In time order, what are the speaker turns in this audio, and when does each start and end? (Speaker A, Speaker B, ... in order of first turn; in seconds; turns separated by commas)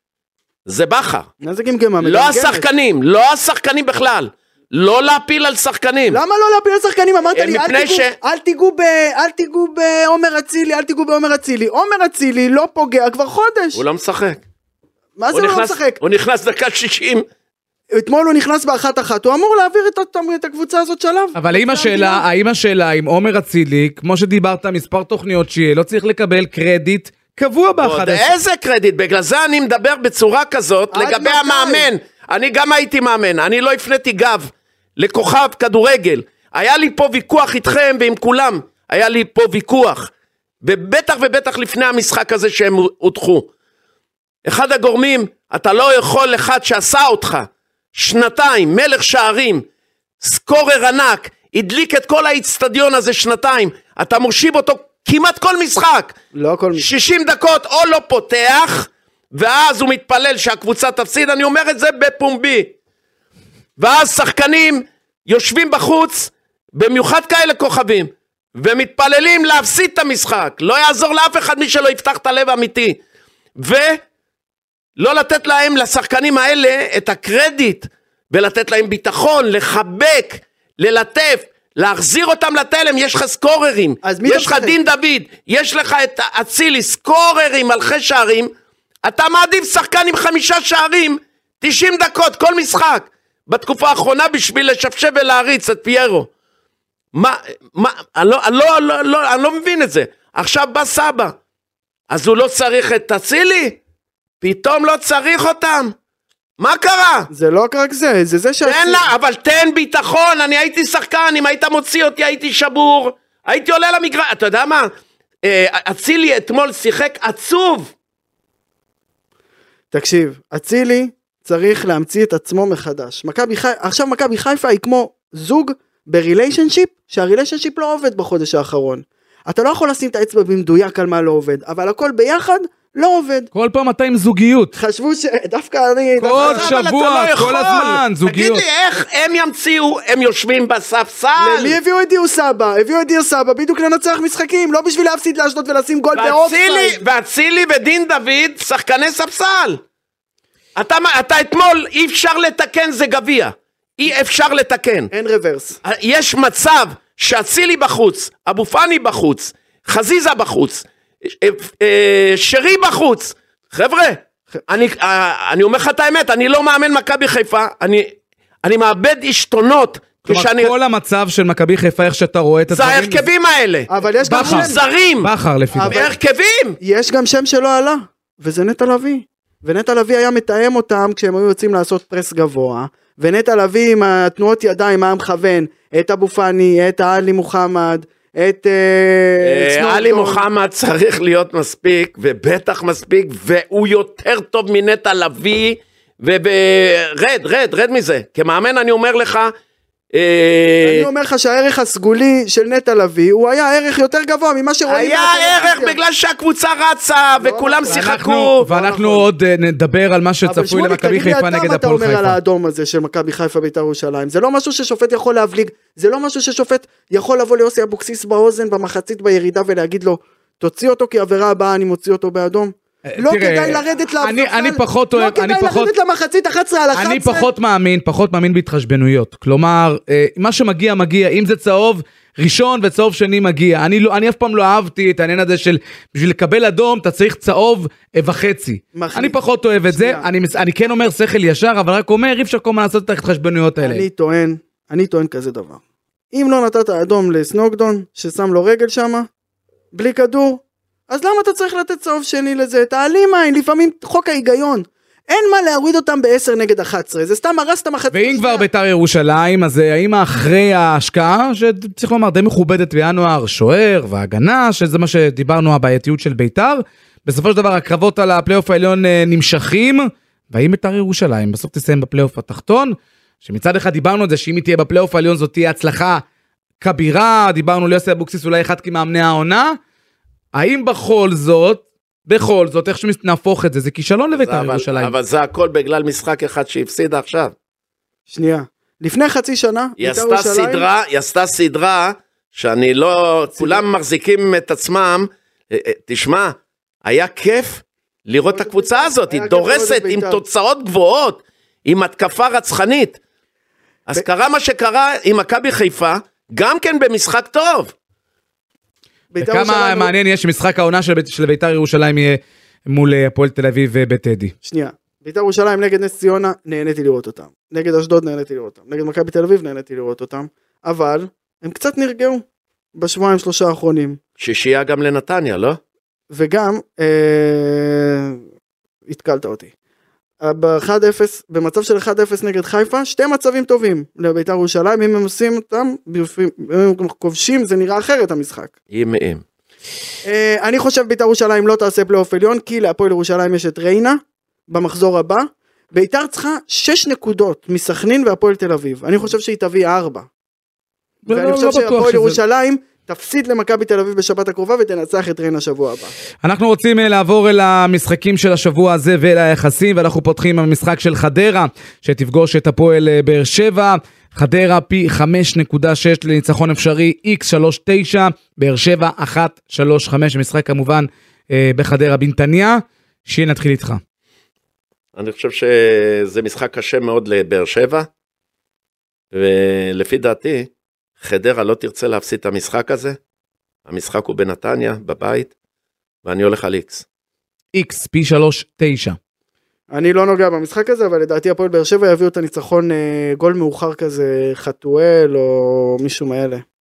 Speaker A: 0.7-1.3, Speaker B: 1.4-2.7, Speaker A: 2.0-6.2, Speaker B: 6.1-13.8, Speaker A: 7.3-8.2, Speaker A: 13.7-14.4, Speaker B: 15.2-16.0, Speaker A: 15.3-17.3, Speaker B: 17.9-22.2, Speaker C: 21.4-28.3, Speaker A: 27.8-40.1, Speaker B: 30.9-31.9, Speaker A: 40.6-43.5, Speaker A: 44.5-49.7, Speaker A: 50.2-56.2, Speaker B: 56.3-56.9, Speaker A: 56.8-62.7, Speaker A: 63.8-73.0, Speaker A: 73.6-74.0, Speaker A: 75.0-88.5, Speaker B: 84.0-84.8, Speaker A: 89.0-96.3, Speaker A: 97.1-101.4, Speaker A: 102.1-103.8, Speaker A: 104.4-105.9, Speaker A: 106.6-107.3, Speaker B: 107.3-109.0, Speaker A: 108.6-114.9, Speaker A: 115.4-117.9, Speaker B: 119.9-133.5, Speaker C: 133.5-134.7, Speaker B: 134.7-136.7, Speaker C: 136.2-138.6, Speaker A: 136.4-141.8, Speaker B: 141.4-147.0, Speaker A: 146.2-149.8, Speaker A: 150.8-155.1, Speaker B: 155.1-155.8, Speaker A: 155.8-170.7, Speaker C: 170.3-173.2, Speaker A: 172.7-175.3, Speaker B: 173.9-174.8, Speaker C: 174.3-176.0, Speaker B: 175.7-176.1, Speaker A: 175.8-176.8, Speaker B: 176.8-190.4, Speaker A: 189.4-199.5, Speaker A: 200.1-201.1, Speaker B: 200.8-206.0, Speaker A: 204.9-208.7, Speaker B: 207.4-209.3, Speaker C: 207.9-212.4, Speaker B: 210.4-227.5, Speaker C: 223.1-225.9, Speaker C: 226.9-244.1, Speaker B: 238.9-240.3, Speaker B: 243.8-245.8, Speaker B: 246.3-249.3, Speaker B: 249.9-258.6, Speaker C: 258.1-276.2, Speaker C: 276.8-279.8, Speaker C: 280.5-285.1, Speaker A: 284.3-287.5, Speaker B: 288.3-290.9, Speaker A: 290.0-303.2, Speaker B: 293.6-293.8, Speaker B: 298.5-300.4, Speaker A: 304.1-307.9, Speaker B: 309.3-310.1, Speaker C: 309.4-314.5, Speaker B: 314.6-322.4, Speaker B: 322.9-324.2, Speaker A: 324.4-325.8, Speaker B: 326.3-328.4, Speaker B: 329.1-329.7, Speaker B: 330.4-338.7, Speaker A: 338.9-339.4, Speaker B: 340.2-350.3, Speaker C: 351.2-352.4, Speaker B: 351.3-356.1, Speaker C: 356.4-374.0, Speaker A: 375.1-378.1, Speaker A: 379.3-383.2, Speaker A: 383.9-385.5, Speaker A: 386.2-387.1, Speaker C: 387.7-389.2, Speaker B: 389.9-396.6